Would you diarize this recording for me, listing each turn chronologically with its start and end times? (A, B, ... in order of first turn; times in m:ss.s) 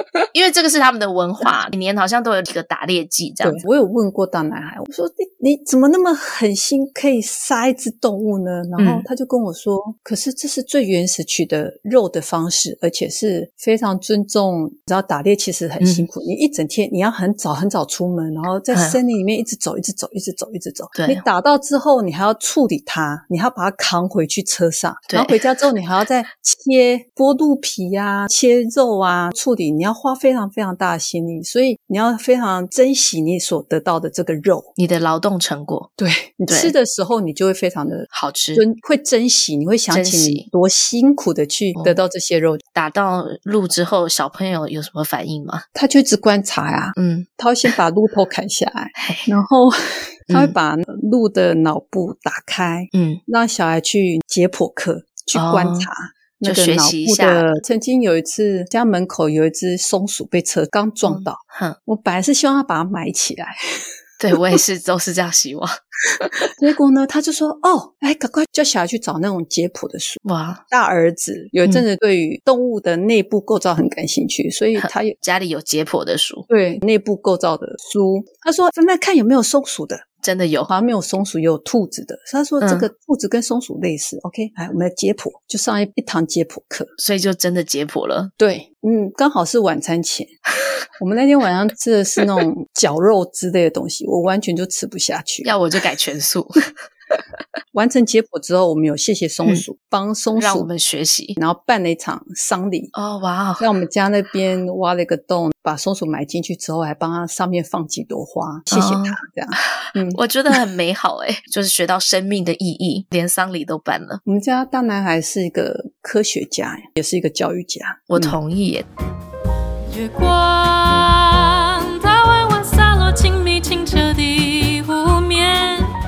0:00.3-0:03.6 A
0:03.4-0:34.7 B
0:08.8-0:09.0 A
0:15.8-0:16.1 A
0:18.7-0:19.0 A
0:20.9-0:21.2 A
0:25.1-0:25.4 A
0:34.8-0:35.9 A
0:36.0-0:42.6 B
0:36.5-0:36.7 A
0:38.1-0:38.6 A
0:39.9-0:40.4 A
0:42.7-0:45.6 A
0:45.7-1:03.6 B
0:47.0-0:47.7 A
0:49.0-0:49.3 A
0:50.3-0:50.5 A
0:52.9-0:53.2 A
0:55.3-0:55.9 A
0:56.4-0:57.5 A
1:01.0-1:01.8 A
1:04.2-1:06.3 A
1:06.6-1:15.2 B
1:10.2-1:10.6 A
1:14.8-1:16.5 A
1:16.5-1:20.0 B
1:20.2-1:20.7 A
1:20.7-1:26.9 B
1:22.6-1:22.9 A
1:27.0-1:28.3 A
1:28.4-1:30.3 B
1:31.0-1:35.5 B
1:35.4-1:36.5 A
1:37.7-1:40.7 B
1:40.4-1:41.4 A
1:41.4-1:42.9 B
1:42.9-1:43.7 A
1:43.6-1:50.2 B
1:48.7-1:54.2 A
1:54.2-1:58.4 B
1:58.1-1:58.9 A
1:59.9-2:05.9 C